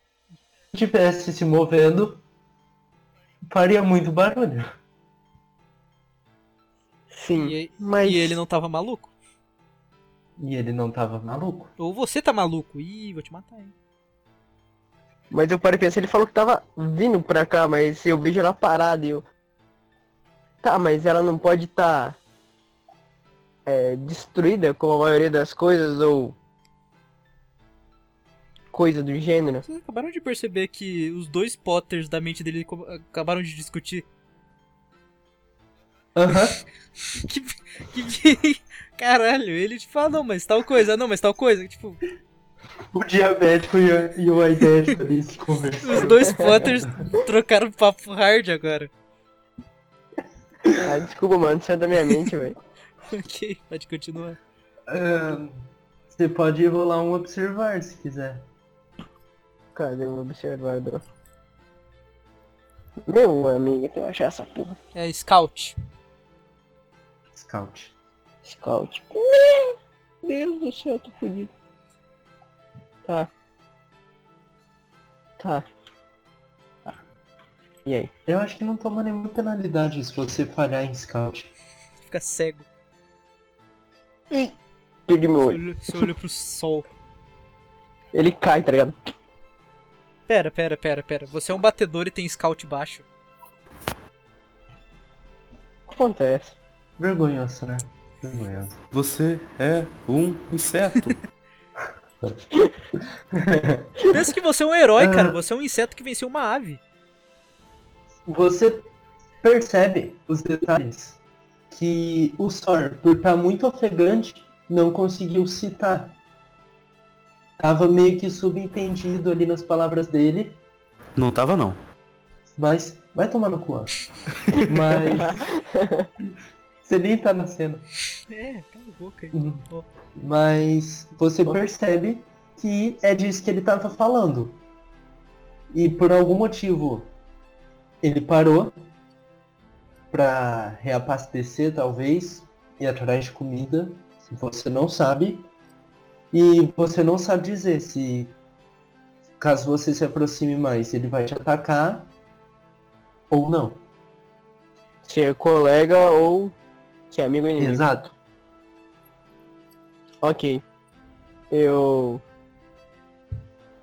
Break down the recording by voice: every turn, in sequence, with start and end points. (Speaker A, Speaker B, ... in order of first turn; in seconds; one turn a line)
Speaker A: 0.7-2.2
Speaker A: 3.5-4.7
Speaker B: 7.1-8.4
Speaker C: 7.3-9.1
Speaker A: 10.4-11.7
Speaker C: 11.8-13.7
Speaker B: 15.3-19.2
Speaker B: 20.6-22.2
Speaker B: 23.6-26.4
Speaker B: 28.7-29.6
Speaker C: 29.6-34.0
Speaker A: 36.1-36.6
Speaker C: 37.1-42.0
Speaker A: 42.9-46.8
Speaker C: 45.8-48.9
Speaker B: 50.8-52.6
Speaker C: 53.1-54.4
Speaker A: 54.9-58.5
Speaker B: 59.7-61.0
Speaker B: 63.0-64.8
Speaker C: 64.9-65.8
Speaker A: 67.3-67.9
Speaker B: 68.4-71.5
Speaker B: 75.4-75.6
Speaker B: 77.8-78.1
Speaker A: 78.3-81.5
Speaker C: 82.0-82.7
Speaker B: 85.1-85.6
Speaker C: 85.4-86.9
Speaker B: 88.1-88.9
Speaker C: 90.3-93.0
Speaker B: 95.9-96.5
Speaker A: 97.0-98.8
Speaker D: 98.9-101.2
Speaker A: 103.3-103.9
Speaker C: 104.1-106.8
Speaker A: 105.0-105.4
Speaker A: 108.2-108.9
Speaker A: 109.4-111.2
Speaker A: 111.7-116.1
Speaker A: 117.6-120.6
Speaker D: 121.2-121.8
Speaker A: 122.6-124.0
Speaker A: 124.5-125.5
Speaker B: 125.1-126.1
Speaker A: 126.8-127.8
Speaker C: 128.3-129.9
Speaker A: 129.3-129.6
Speaker A: 130.2-134.6
Speaker A: 135.7-137.1
Speaker A: 138.0-138.8
Speaker A: 140.1-145.5
Speaker A: 146.3-148.3
Speaker A: 149.4-152.1
Speaker A: 153.3-153.8
Speaker B: 155.0-156.5
Speaker B: 157.1-157.9
Speaker A: 157.6-158.1
Speaker B: 160.2-160.6
Speaker B: 161.5-162.2